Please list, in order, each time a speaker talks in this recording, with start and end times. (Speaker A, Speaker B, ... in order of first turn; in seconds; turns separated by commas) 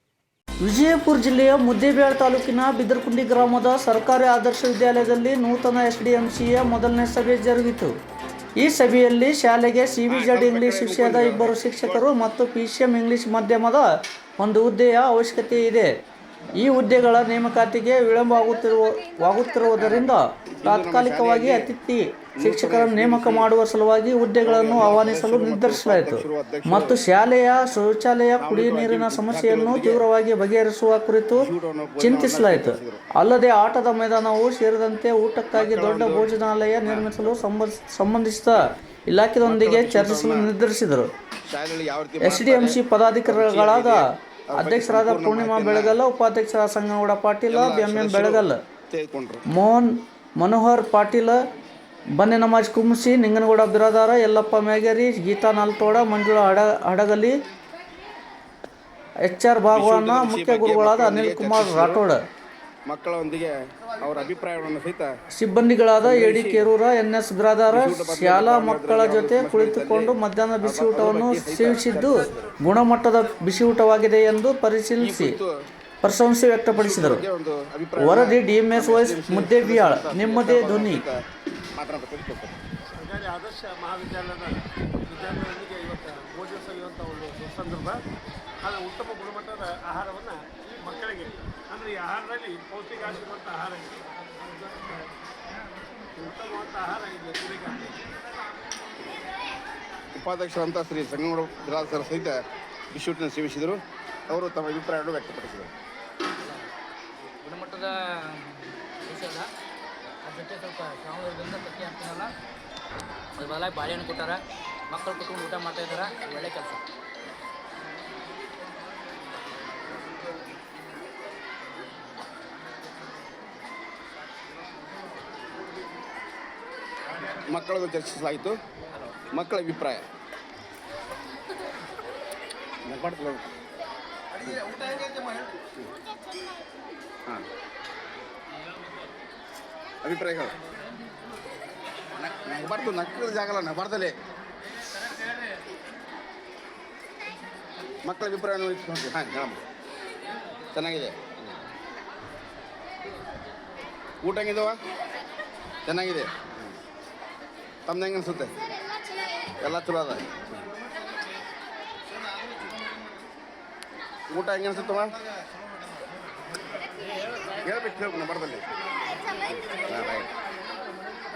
Speaker A: 0.6-7.9, Speaker A: 8.6-13.9, Speaker B: 10.1-12.0, Speaker A: 14.4-15.9, Speaker A: 16.6-41.1, Speaker B: 19.8-21.7, Speaker B: 22.4-23.5, Speaker B: 24.4-27.0, Speaker B: 28.4-30.0, Speaker B: 31.3-33.0, Speaker B: 35.5-36.3, Speaker B: 36.9-37.4, Speaker B: 39.4-40.5, Speaker B: 41.5-46.0, Speaker A: 42.2-44.0, Speaker A: 44.5-48.6, Speaker B: 47.5-49.5, Speaker A: 49.5-51.4, Speaker A: 52.2-57.4, Speaker A: 59.2-62.2, Speaker B: 59.7-62.0, Speaker B: 62.9-65.1, Speaker A: 65.3-75.4, Speaker B: 66.0-66.7, Speaker B: 67.7-72.5, Speaker B: 75.0-75.5, Speaker A: 76.0-77.2, Speaker B: 76.7-81.2, Speaker A: 78.0-81.0, Speaker B: 81.7-82.6, Speaker C: 82.9-88.0, Speaker C: 88.6-95.0, Speaker C: 96.2-98.0, Speaker B: 100.1-102.4, Speaker B: 102.9-105.7, Speaker D: 106.4-106.7, Speaker D: 107.4-109.5, Speaker D: 110.2-112.3, Speaker D: 113.4-116.8, Speaker B: 127.2-128.6, Speaker B: 129.3-130.1, Speaker B: 132.8-133.5, Speaker B: 134.4-134.9, Speaker B: 140.0-140.5, Speaker B: 142.1-144.1, Speaker B: 148.0-149.6, Speaker B: 150.7-151.6, Speaker B: 154.2-154.8, Speaker B: 155.8-156.8, Speaker B: 157.8-158.5, Speaker B: 159.6-160.6, Speaker B: 164.3-165.2, Speaker B: 167.6-168.6, Speaker B: 169.5-170.3